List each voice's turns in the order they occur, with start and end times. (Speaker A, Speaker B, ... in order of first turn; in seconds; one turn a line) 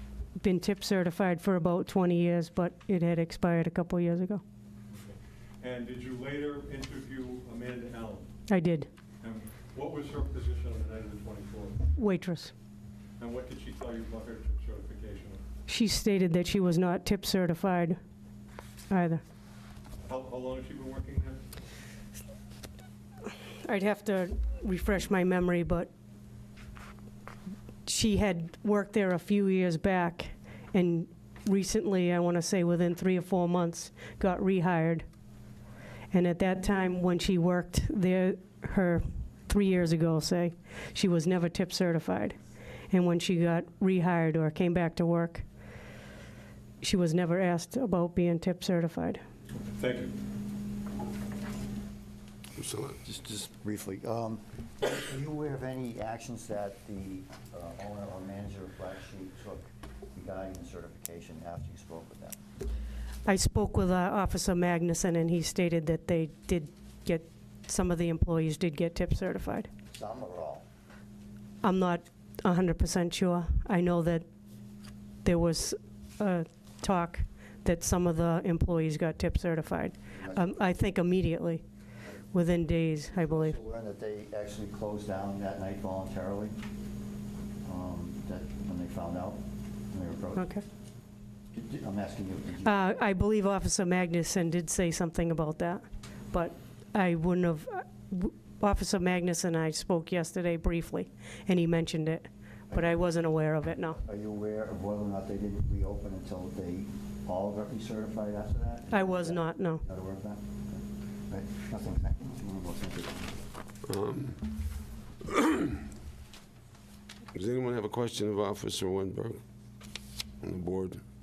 Speaker A: 0.4-4.4
Speaker B: 4.9-8.3
Speaker A: 8.5-8.9
Speaker B: 9.2-11.9
Speaker A: 11.9-12.5
Speaker B: 13.2-15.4
Speaker A: 15.7-18.0
Speaker A: 18.9-19.2
Speaker B: 20.0-21.4
Speaker A: 23.6-25.9
Speaker A: 27.9-35.0
Speaker A: 36.1-42.4
Speaker A: 42.9-45.4
Speaker A: 46.8-49.2
Speaker B: 49.7-50.1
Speaker C: 52.5-53.0
Speaker D: 53.0-62.4
Speaker A: 63.2-69.7
Speaker D: 69.9-70.6
Speaker A: 71.6-74.2
Speaker A: 75.2-81.6
Speaker D: 80.1-80.8
Speaker A: 82.3-83.5
Speaker D: 83.1-86.6
Speaker D: 87.6-90.5
Speaker A: 90.3-90.6
Speaker D: 91.5-92.8
Speaker A: 92.6-104.0
Speaker D: 102.7-103.0
Speaker D: 104.0-113.3
Speaker A: 108.9-109.8
Speaker C: 113.8-114.5
Speaker C: 115.3-115.8
Speaker C: 117.3-119.4
Speaker C: 120.4-121.0